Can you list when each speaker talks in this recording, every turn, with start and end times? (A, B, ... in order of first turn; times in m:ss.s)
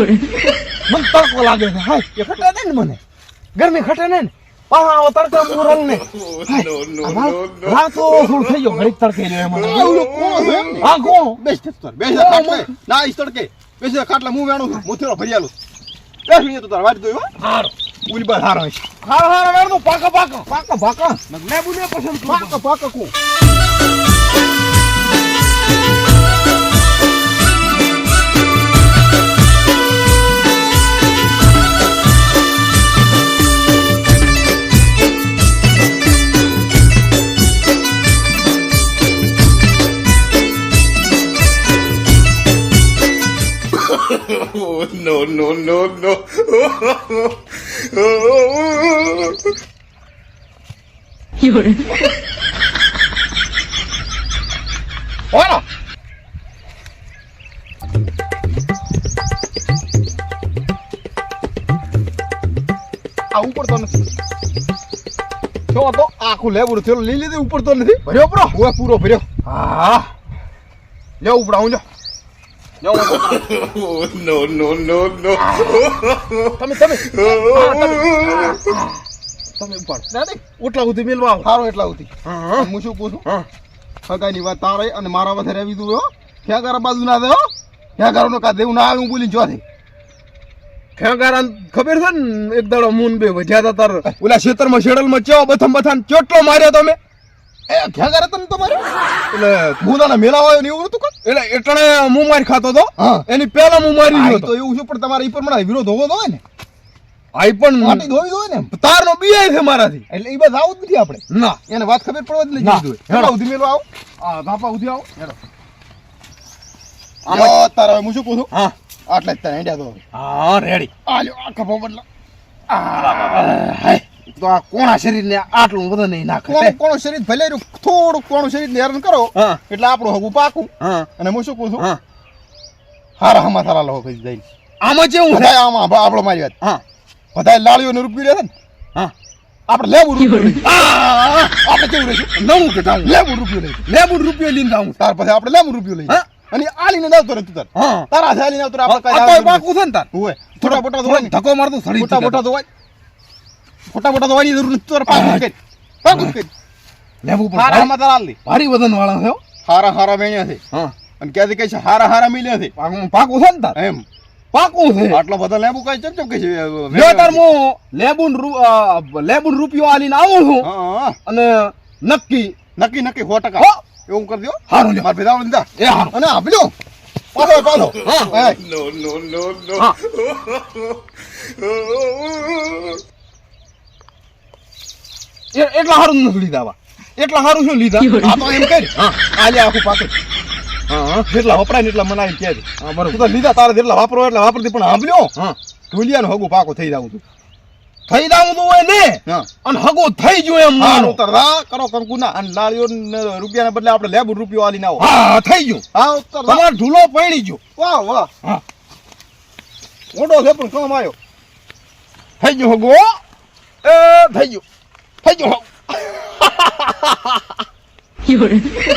0:00.9-0:03.0 A
0:03.6-0:10.2 A
0:07.0-0:07.4 B
0:09.6-0:15.5 B
0:10.8-0:11.4 A
0:12.1-0:12.7 A
0:16.3-0:17.3 B
0:17.4-0:17.7 A
0:18.1-0:18.8 B
0:19.0-0:22.6 A
0:22.2-0:23.1 B
0:44.1-0:47.0 C
0:44.6-0:45.9 B
0:48.2-0:49.2 B
0:55.3-0:55.6 B
1:03.3-1:04.0 B
1:05.7-1:06.1 A
1:06.1-1:09.3 B
1:08.1-1:08.6 A
1:09.4-1:10.1 A
1:11.2-1:11.8 A
1:12.8-1:13.5 A
1:13.5-1:15.4 C
1:15.4-1:16.0 A
1:16.6-1:18.9 A
1:19.6-1:21.5 A
1:21.4-1:23.2 B
1:22.2-1:22.7 A
1:24.1-1:29.6 B
1:31.0-1:37.0 A
1:37.7-1:38.8 B
1:39.3-1:39.8 A
1:39.8-1:41.1 B
1:41.2-1:44.5 A
1:43.0-1:43.2 B
1:44.1-1:46.4 B
1:47.4-1:48.1 A
1:47.8-1:48.7 B
1:48.7-1:50.0 A
1:50.1-1:53.8 B
1:51.3-1:51.6 A
1:52.6-1:53.3 A
1:54.2-1:55.3 A
1:57.3-1:57.6 A
1:57.3-1:58.5 B
1:59.1-2:00.0 B
2:00.2-2:00.9 A
2:01.1-2:02.0 B
2:02.7-2:06.8 A
2:06.5-2:11.9 B
2:09.4-2:09.6 A
2:10.8-2:11.1 A
2:13.2-2:14.4 B
2:14.8-2:15.6 A
2:15.3-2:16.5 B
2:17.4-2:18.5 B
2:19.7-2:22.3 B
2:22.4-2:23.1 A
2:23.0-2:23.8 B
2:23.9-2:25.0 A
2:25.0-2:31.3 B
2:27.8-2:28.1 A
2:28.9-2:30.1 A
2:30.6-2:32.4 A
2:32.0-2:32.7 B
2:33.9-2:36.5 B
2:35.1-2:35.5 A
2:36.1-2:36.4 A
2:37.2-2:37.9 A
2:37.5-2:38.4 B
2:38.4-2:39.4 A
2:39.6-2:40.6 B
2:41.2-2:42.7 B
2:42.8-2:43.8 A
2:43.8-2:44.0 B
2:44.5-2:45.2 A
2:45.1-2:47.4 B
2:46.9-2:50.7 A
2:50.6-2:51.2 B
2:51.3-2:52.6 A
2:52.8-2:56.7 B
2:54.7-2:55.1 A
2:55.8-2:56.1 A
2:57.3-2:58.6 B
2:58.0-2:58.5 A
2:58.7-2:59.8 C
3:00.3-3:00.9 C
3:02.1-3:02.7 B
3:05.5-3:08.3 A
3:08.2-3:10.1 B
3:10.9-3:11.3 A
3:11.3-3:15.3 B
3:12.8-3:13.3 A
3:15.9-3:17.2 B
3:18.1-3:21.2 A
3:20.8-3:25.1 B
3:25.0-3:25.8 A
3:25.9-3:26.7 B
3:26.5-3:27.6 A
3:27.8-3:28.3 B
3:30.1-3:31.2 B
3:32.4-3:33.2 A
3:33.8-3:34.6 A
3:35.2-3:37.4 A